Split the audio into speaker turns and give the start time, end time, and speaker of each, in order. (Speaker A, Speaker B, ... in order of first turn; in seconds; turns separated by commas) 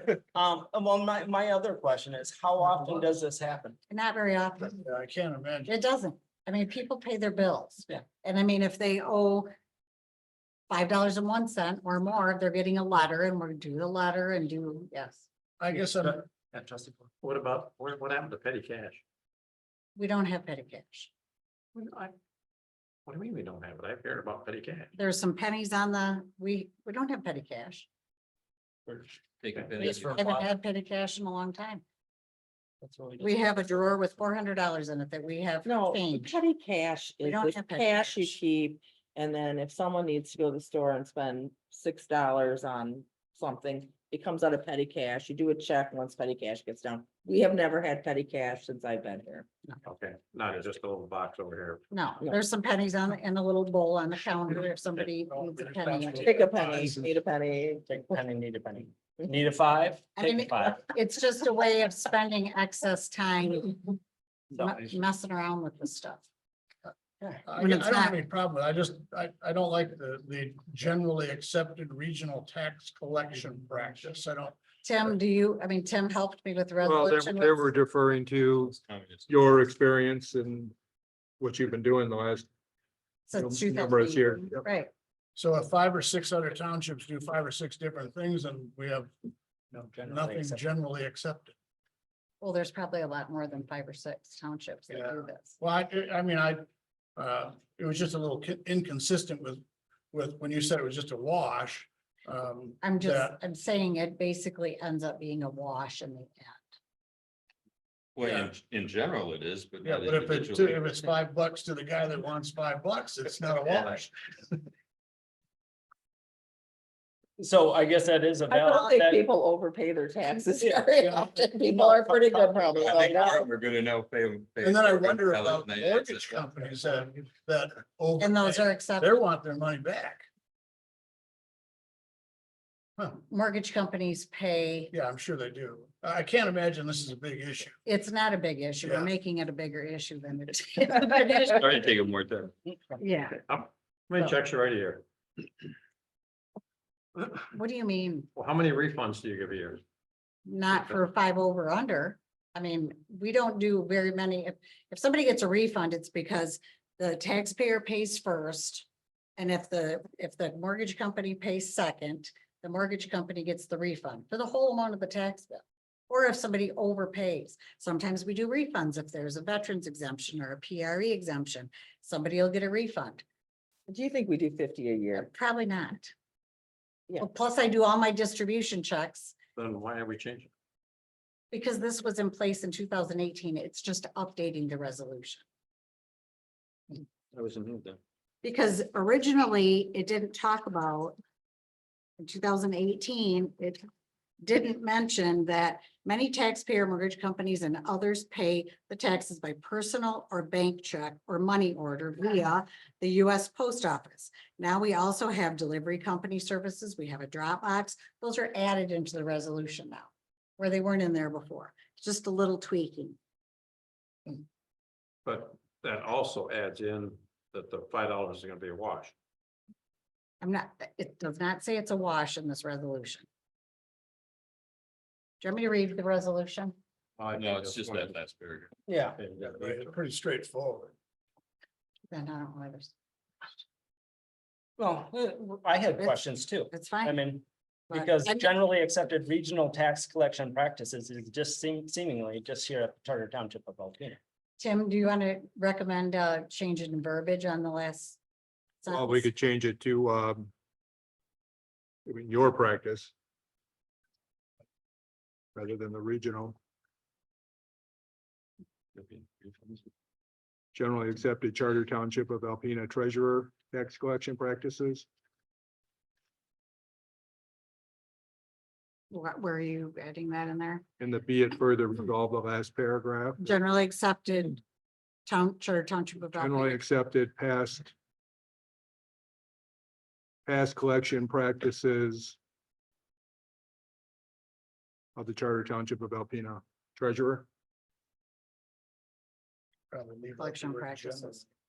Speaker A: 0.2-3.8, Speaker B: 3.9-4.8, Speaker C: 4.8-5.7, Speaker B: 5.7-9.5, Speaker B: 10.7-15.3, Speaker C: 15.6-16.2, Speaker A: 16.5-17.1, Speaker D: 17.2-19.0, Speaker B: 20.0-21.1, Speaker D: 21.8-22.1, Speaker D: 23.1-24.9, Speaker B: 24.9-27.9, Speaker E: 29.4-30.5, Speaker D: 29.5-29.9, Speaker B: 29.8-31.8, Speaker A: 32.9-33.2, Speaker B: 33.2-36.4, Speaker F: 35.7-49.5, Speaker B: 37.2-38.4, Speaker D: 49.8-51.8, Speaker B: 51.9-56.3, Speaker C: 55.2-57.1, Speaker F: 56.3-57.8, Speaker A: 57.9-60.8, Speaker B: 60.2-63.9, Speaker B: 64.6-66.2, Speaker B: 67.2-68.2, Speaker C: 67.5-74.6, Speaker B: 74.8-77.7, Speaker G: 76.8-78.8, Speaker E: 78.7-79.3, Speaker G: 79.3-80.8, Speaker G: 81.4-82.5, Speaker B: 83.3-84.9, Speaker G: 83.4-84.7, Speaker C: 85.4-89.1, Speaker A: 89.7-90.6, Speaker C: 90.0-91.5, Speaker B: 92.4-95.6, Speaker C: 94.9-96.7, Speaker C: 97.2-103.4, Speaker B: 102.8-106.7, Speaker E: 108.2-110.9, Speaker C: 108.2-108.5, Speaker C: 109.8-114.6, Speaker A: 117.4-119.3, Speaker F: 118.7-123.3, Speaker A: 120.5-123.4, Speaker E: 122.8-126.5, Speaker C: 124.6-130.3, Speaker B: 128.2-129.2, Speaker B: 133.2-134.9, Speaker C: 134.9-137.8, Speaker B: 137.9-141.9, Speaker C: 138.8-139.1, Speaker E: 141.4-142.5, Speaker B: 143.0-143.4, Speaker D: 143.5-145.0, Speaker B: 147.5-148.3, Speaker D: 148.4-149.8, Speaker B: 150.5-158.9, Speaker B: 159.4-173.2, Speaker F: 173.9-175.3, Speaker B: 175.2-176.1, Speaker B: 177.2-179.3, Speaker D: 179.6-180.5, Speaker B: 181.5-185.4, Speaker D: 186.9-188.0, Speaker B: 188.4-191.2, Speaker B: 192.2-193.8, Speaker B: 194.4-213.2, Speaker D: 215.2-219.1, Speaker B: 220.4-223.3, Speaker B: 225.4-226.8, Speaker D: 227.2-228.2, Speaker E: 227.3-228.7, Speaker A: 228.9-229.2, Speaker D: 229.2-229.9, Speaker C: 229.4-230.9, Speaker B: 232.1-232.9, Speaker A: 234.8-244.2, Speaker B: 236.7-237.2, Speaker B: 237.9-238.5, Speaker B: 244.6-248.2, Speaker B: 248.8-249.3, Speaker G: 248.9-250.5, Speaker G: 252.1-253.1, Speaker G: 255.6-256.6, Speaker D: 259.0-259.8, Speaker G: 260.7-265.1, Speaker B: 269.1-270.8, Speaker G: 271.0-273.5, Speaker B: 273.4-274.6, Speaker B: 275.3-276.8, Speaker G: 276.3-277.9, Speaker G: 280.5-282.4, Speaker G: 285.2-287.5, Speaker C: 289.9-291.4, Speaker B: 290.4-291.5